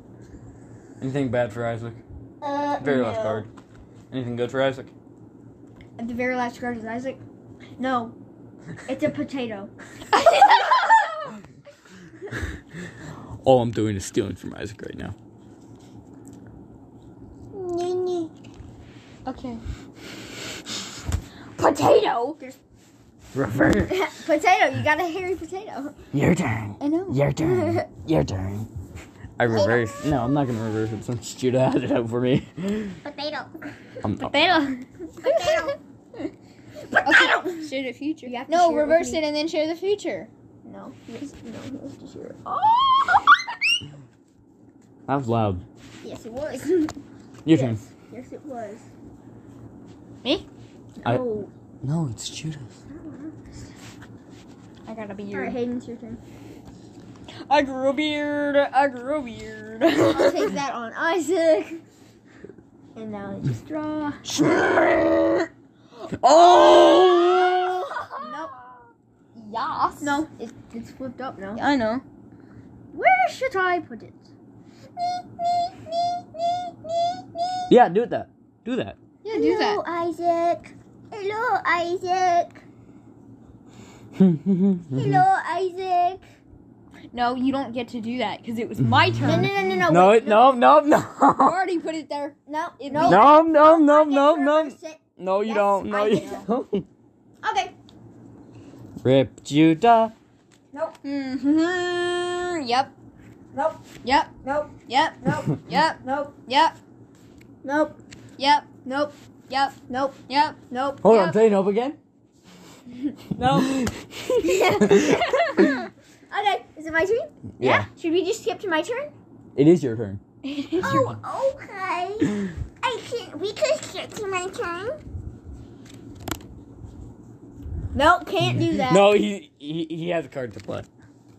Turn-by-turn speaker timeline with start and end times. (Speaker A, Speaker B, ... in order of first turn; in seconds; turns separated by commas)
Speaker A: 1.0-2.0, Speaker B: 2.4-3.4, Speaker A: 2.8-3.5, Speaker A: 4.1-4.9, Speaker B: 6.0-7.2, Speaker B: 7.8-8.2, Speaker B: 8.8-9.7, Speaker C: 10.1-11.2, Speaker A: 13.4-15.1, Speaker B: 17.5-18.3, Speaker C: 19.2-19.6, Speaker C: 21.6-22.4, Speaker A: 23.3-24.1, Speaker B: 23.9-25.9, Speaker A: 26.1-28.7, Speaker C: 26.8-27.2, Speaker B: 27.4-27.8, Speaker A: 29.4-33.0, Speaker B: 29.5-30.1, Speaker B: 33.0-33.6, Speaker A: 34.0-34.6, Speaker C: 34.2-36.3, Speaker B: 35.2-35.8, Speaker B: 36.9-37.7, Speaker C: 37.0-40.3, Speaker B: 38.2-39.2, Speaker B: 40.6-43.5, Speaker A: 45.1-45.6, Speaker B: 46.0-48.9, Speaker A: 47.4-47.8, Speaker B: 51.0-51.5, Speaker A: 51.8-52.7, Speaker B: 52.9-53.5, Speaker C: 54.9-55.6, Speaker B: 55.3-56.2, Speaker C: 57.5-60.5, Speaker B: 60.0-61.8, Speaker B: 63.0-64.2, Speaker A: 64.3-65.4, Speaker C: 66.0-68.5, Speaker A: 66.2-67.9, Speaker B: 67.2-68.5, Speaker C: 69.3-70.2, Speaker B: 70.0-71.6, Speaker C: 71.5-72.0, Speaker B: 72.9-74.3, Speaker B: 75.0-77.8, Speaker A: 77.7-79.0, Speaker C: 79.2-79.8, Speaker B: 79.3-82.6, Speaker A: 84.2-85.2, Speaker B: 84.9-86.2, Speaker C: 87.1-89.5, Speaker B: 89.2-90.6, Speaker A: 89.8-91.6, Speaker C: 91.4-93.4, Speaker B: 92.5-96.5, Speaker A: 93.0-96.9, Speaker B: 97.4-97.7, Speaker A: 99.0-100.1, Speaker C: 101.0-102.9, Speaker B: 103.5-103.8, Speaker C: 104.0-104.3, Speaker B: 104.4-105.5, Speaker C: 104.9-106.8, Speaker B: 106.0-106.3, Speaker B: 107.6-108.0, Speaker C: 108.4-108.8, Speaker B: 108.8-109.1, Speaker C: 109.5-109.8, Speaker B: 109.9-110.2, Speaker C: 110.3-110.6, Speaker B: 110.7-111.3, Speaker A: 111.0-112.0, Speaker C: 113.4-113.7, Speaker A: 113.5-115.3, Speaker B: 114.4-115.8, Speaker C: 114.9-115.8, Speaker B: 116.3-119.1, Speaker A: 117.6-117.9, Speaker A: 119.5-120.2, Speaker C: 120.5-121.0, Speaker B: 120.7-125.0, Speaker B: 127.9-129.1, Speaker A: 128.8-130.9